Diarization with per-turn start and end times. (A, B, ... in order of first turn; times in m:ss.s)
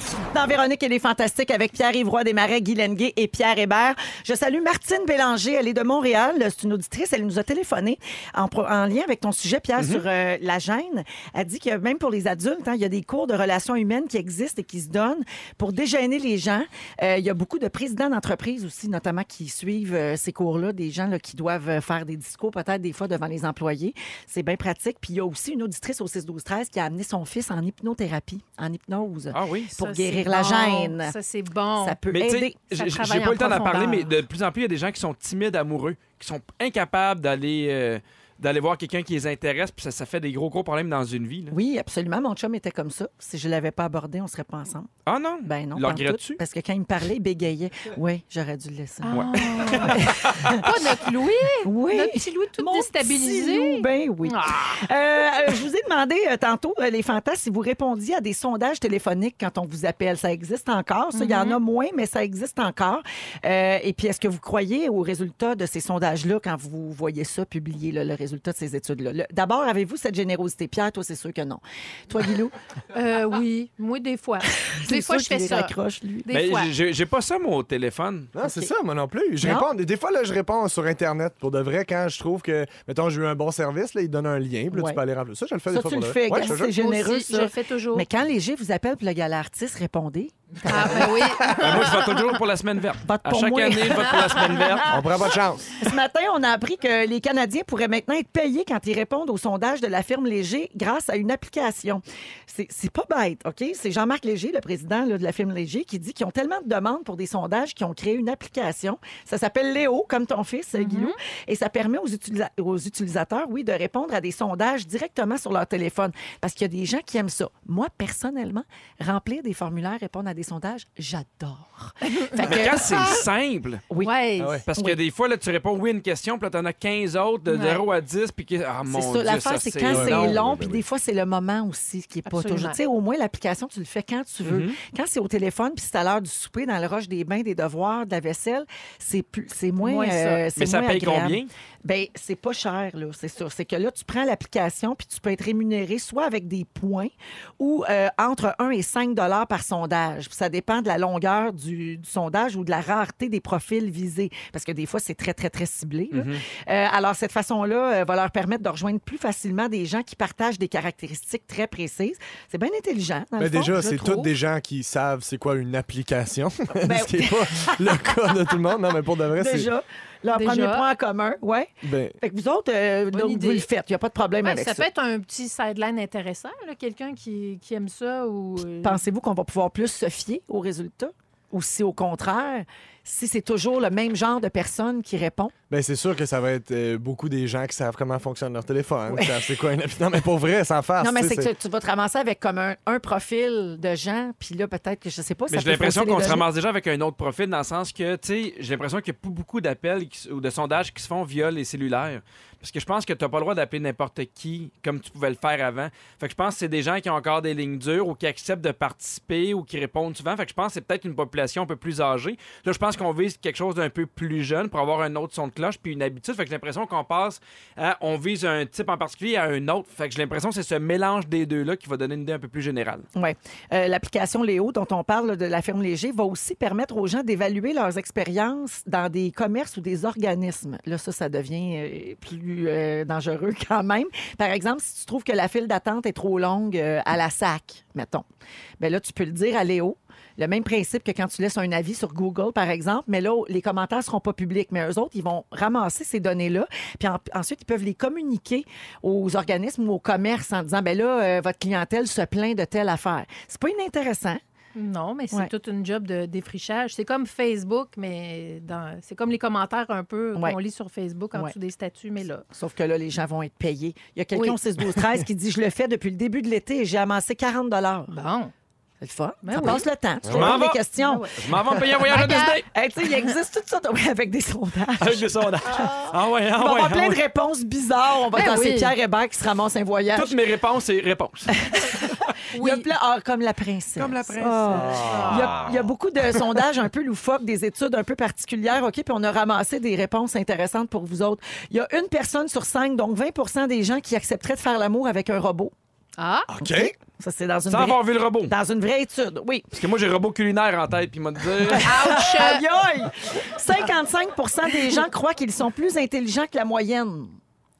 0:00.3-0:31.2 A
0:09.8-0:10.0 B
0:29.3-0:29.7 B
0:29.8-0:32.0 C
0:31.8-0:32.6 A
0:32.1-0:41.5 B
0:32.7-0:34.1 C
0:41.5-0:44.9 A
0:45.0-0:46.4 B
0:45.4-0:50.7 A
0:49.0-0:54.8 C
0:49.1-0:50.5 B
0:51.6-1:12.5 A
1:01.1-1:01.6 C
1:12.9-1:15.7 C
1:14.6-1:16.3 A
1:16.2-1:16.7 C
1:16.3-1:18.3 B
1:18.3-1:26.7 D
1:18.4-1:18.7 A
1:19.4-1:19.7 A
1:24.7-1:25.0 A
1:25.7-1:31.3 A
1:26.3-1:28.0 C
1:30.7-1:32.0 C
1:30.7-1:31.6 D
1:31.6-1:34.9 B
1:33.0-1:34.8 A
1:34.8-1:35.7 D
1:35.8-2:03.2 A
1:50.8-1:51.2 C
2:02.4-2:03.8 B
2:03.9-2:04.1 A
2:04.0-2:04.6 C
2:04.7-2:10.3 B
2:04.7-2:05.0 A
2:07.5-2:07.8 C
2:08.9-2:43.8 A
2:09.8-2:10.8 D
2:12.3-2:12.8 C
2:14.4-2:14.8 B
2:19.8-2:20.4 C
2:20.6-2:21.5 B
2:36.1-2:36.4 B
2:43.4-2:49.7 D
2:43.7-2:44.3 C
2:46.8-2:48.4 A
2:49.3-2:54.8 A
2:50.3-2:50.8 C
2:51.8-2:52.2 D
2:53.1-2:53.6 C
2:54.4-2:59.0 C
2:58.8-3:05.5 A
3:05.7-3:11.5 D
3:09.1-3:09.5 A
3:11.0-3:16.5 A
3:15.5-3:43.0 B
3:43.1-3:58.2 A
3:58.8-4:14.4 A
4:14.7-4:22.4 C
4:22.5-4:28.1 A
4:24.3-4:24.6 C
4:28.1-4:28.5 C
4:29.0-4:31.3 A
4:29.4-4:29.8 C
4:30.2-4:30.6 D
4:30.3-4:30.8 B
4:31.0-4:31.4 C
4:31.4-4:32.7 B
4:31.9-4:40.4 A
4:32.1-4:32.6 C
4:35.0-4:37.2 B
4:38.3-4:38.9 C
4:40.1-4:41.5 B
4:41.6-4:55.7 A
4:42.5-4:42.9 C
4:44.0-4:45.7 B
4:44.8-4:45.3 D
4:45.0-4:45.4 C
4:56.2-4:56.5 C
4:56.5-4:56.9 D
4:56.6-4:59.7 A
4:57.7-4:58.5 B
4:59.7-5:01.9 B
5:01.5-5:07.4 A
5:01.8-5:02.6 C